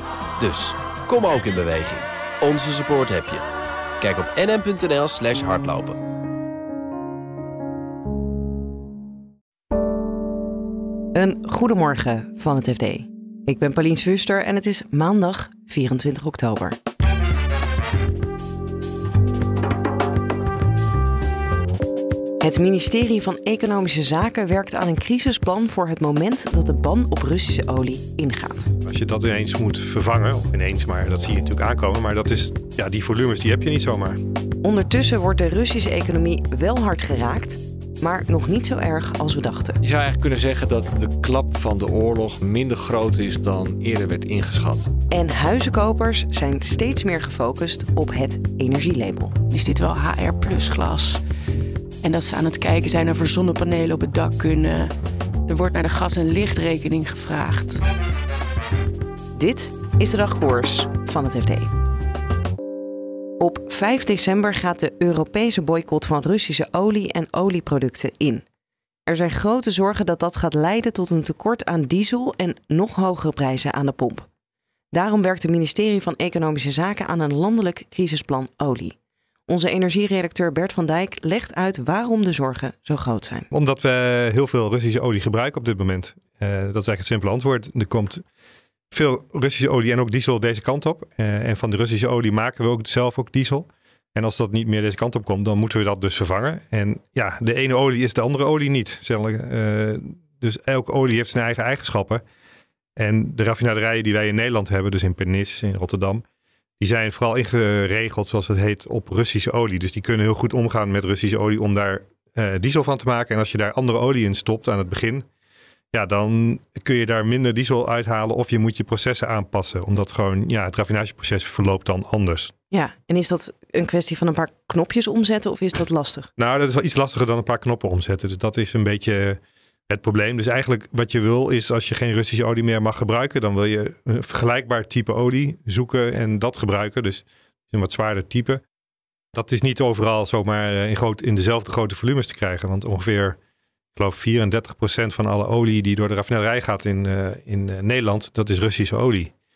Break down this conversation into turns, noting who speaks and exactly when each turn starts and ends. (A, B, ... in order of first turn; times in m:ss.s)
0:00.4-0:03.4 A
0:04.0-0:06.0 A
0:11.1-0:16.8 B
0:22.4-0:28.7 B
0:28.9-0:34.2 C
0:34.6-0:39.8 B
0:39.8-0:44.9 D
0:45.1-0:49.3 B
0:49.5-0:51.2 E
0:52.0-0:54.9 E
0:55.4-0:57.8 E
0:59.4-1:01.7 B
1:03.4-1:08.4 B
1:09.1-1:14.3 B
1:14.9-1:18.9 B
1:19.5-1:23.5 B
1:23.5-1:28.2 C
1:28.9-1:42.2 C
1:43.0-1:46.2 C
1:46.8-1:55.2 C
1:55.9-2:02.5 C
2:02.7-2:06.3 B
2:06.4-2:18.6 C
2:19.3-2:23.4 C
2:24.0-2:29.3 C